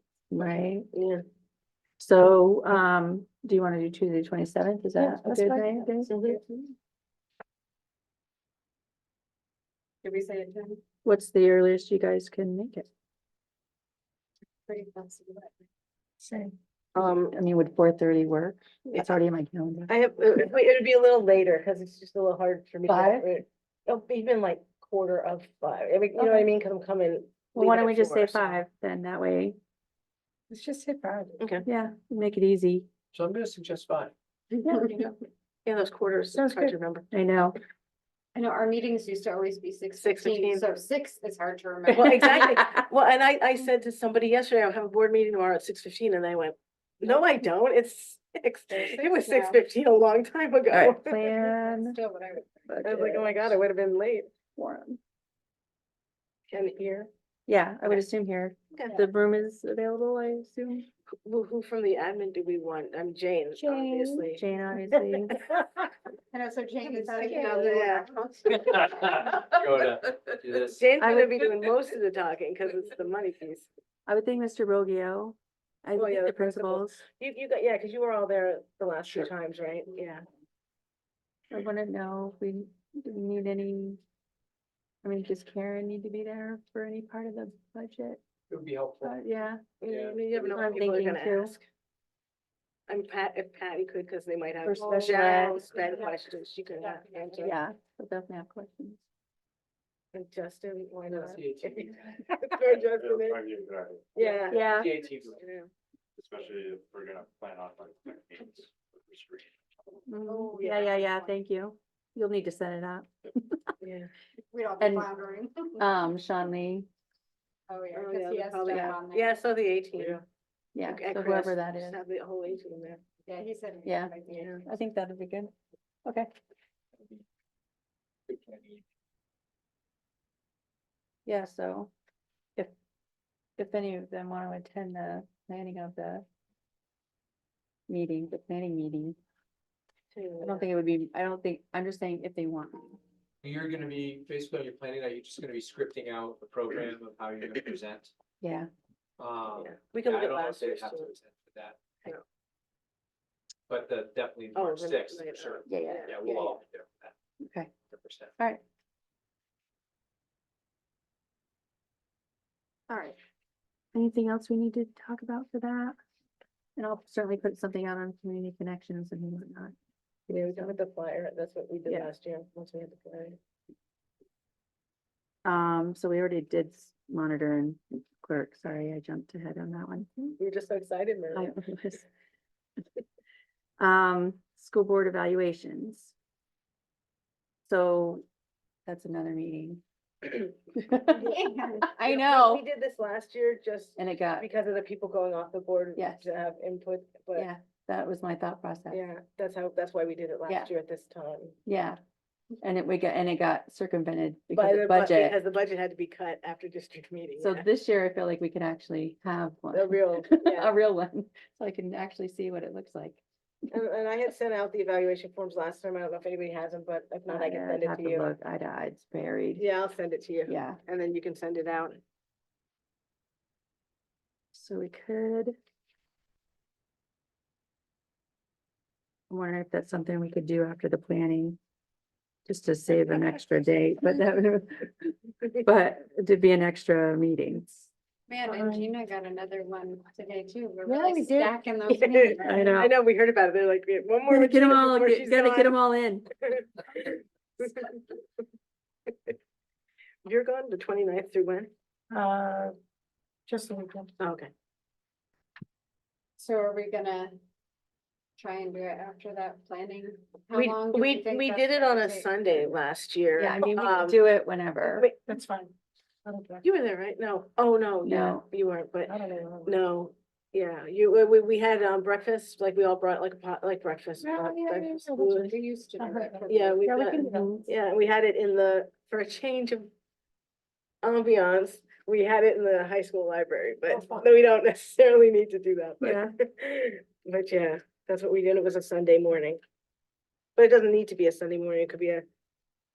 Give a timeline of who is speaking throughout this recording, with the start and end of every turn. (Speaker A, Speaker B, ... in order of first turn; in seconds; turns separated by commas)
Speaker A: 0.3-0.9, Speaker B: 0.9-1.2, Speaker A: 2.0-6.1, Speaker B: 5.3-6.4, Speaker C: 10.0-10.8, Speaker A: 11.0-12.9, Speaker C: 14.7-15.6, Speaker B: 16.9-17.3, Speaker A: 17.0-19.9, Speaker B: 19.9-28.6, Speaker A: 22.9-23.3, Speaker A: 26.1-26.5, Speaker A: 27.5-29.6, Speaker D: 30.5-31.4, Speaker B: 31.4-31.6, Speaker A: 31.6-32.9, Speaker E: 33.1-34.1, Speaker A: 34.6-35.0, Speaker B: 35.6-37.1, Speaker A: 37.1-37.6, Speaker C: 38.3-42.3, Speaker B: 40.0-40.6, Speaker A: 41.9-42.8, Speaker B: 41.9-51.2, Speaker C: 48.7-49.6, Speaker A: 50.7-52.0, Speaker C: 51.3-52.7, Speaker A: 52.7-53.5, Speaker B: 52.8-54.3, Speaker A: 54.5-55.0, Speaker B: 56.5-57.1, Speaker A: 57.5-60.9, Speaker B: 61.2-64.5, Speaker A: 63.5-65.4, Speaker B: 65.1-65.6, Speaker C: 66.3-68.9, Speaker B: 66.8-68.1, Speaker E: 68.5-70.8, Speaker B: 70.7-73.7, Speaker A: 71.0-71.5, Speaker A: 74.1-76.9, Speaker B: 75.9-80.2, Speaker A: 81.5-84.0, Speaker A: 85.0-88.2, Speaker E: 88.5-89.2, Speaker A: 89.0-89.6, Speaker B: 89.8-91.6, Speaker E: 89.8-90.8, Speaker A: 90.5-91.5, Speaker B: 92.9-97.6, Speaker A: 94.6-95.7, Speaker C: 95.8-96.1, Speaker C: 96.8-97.5, Speaker A: 97.4-99.0, Speaker B: 100.1-103.4, Speaker E: 101.1-102.3, Speaker F: 102.8-104.4, Speaker B: 104.1-105.7, Speaker E: 104.3-105.4, Speaker A: 104.5-104.9, Speaker F: 106.2-109.5, Speaker A: 110.0-113.5, Speaker C: 110.2-111.3, Speaker B: 113.8-114.1, Speaker C: 114.5-115.9, Speaker A: 114.8-115.1, Speaker A: 115.8-116.9, Speaker C: 117.7-119.4, Speaker B: 117.9-120.2, Speaker A: 118.7-119.0, Speaker A: 120.7-122.0, Speaker B: 120.8-123.0, Speaker C: 123.3-124.7, Speaker A: 123.8-125.5, Speaker B: 124.3-124.6, Speaker E: 128.3-128.8, Speaker A: 131.2-131.9, Speaker A: 133.6-136.2, Speaker A: 137.9-139.2, Speaker B: 140.1-140.6, Speaker A: 140.4-143.0, Speaker E: 143.4-148.1, Speaker A: 148.4-148.7, Speaker E: 149.2-151.8, Speaker B: 149.5-151.1, Speaker E: 153.7-157.1, Speaker B: 154.5-156.6, Speaker A: 155.7-156.4, Speaker A: 157.4-157.7, Speaker E: 157.9-158.3, Speaker A: 162.9-163.2, Speaker A: 163.9-165.9, Speaker A: 166.8-169.7, Speaker B: 170.3-173.4, Speaker A: 170.3-170.7, Speaker A: 171.8-172.1, Speaker A: 175.4-180.4, Speaker B: 180.4-181.5, Speaker A: 181.3-182.1, Speaker A: 183.8-186.1, Speaker A: 187.7-188.2, Speaker A: 188.8-192.6, Speaker C: 191.2-191.8, Speaker B: 192.0-197.5, Speaker A: 194.0-194.5, Speaker A: 195.9-196.3, Speaker A: 197.3-199.0, Speaker B: 198.9-201.6, Speaker A: 201.7-202.0, Speaker A: 202.6-205.4, Speaker B: 204.5-207.7, Speaker A: 207.4-213.2, Speaker B: 209.7-210.7, Speaker B: 213.7-218.3, Speaker A: 217.3-219.7, Speaker B: 219.6-222.0, Speaker A: 220.5-220.8, Speaker A: 224.5-225.6, Speaker A: 229.3-231.6, Speaker A: 232.4-237.9, Speaker B: 232.9-233.2, Speaker C: 238.3-242.7, Speaker A: 240.8-241.5, Speaker B: 241.9-245.8, Speaker A: 242.4-242.9, Speaker A: 244.3-246.3, Speaker B: 246.4-248.1, Speaker B: 250.2-251.7, Speaker D: 252.1-252.7, Speaker D: 253.5-254.1, Speaker B: 254.2-254.5, Speaker C: 256.4-257.3, Speaker C: 258.4-262.7, Speaker B: 260.5-264.2, Speaker A: 263.4-265.1, Speaker D: 265.3-265.7, Speaker D: 266.2-266.6, Speaker B: 266.6-275.5, Speaker A: 268.0-268.4, Speaker D: 269.1-269.7, Speaker D: 274.2-277.6, Speaker C: 275.3-276.9, Speaker B: 276.5-279.9, Speaker A: 277.1-277.6, Speaker B: 281.0-289.6, Speaker D: 283.9-284.2, Speaker A: 286.0-286.3, Speaker B: 290.6-292.2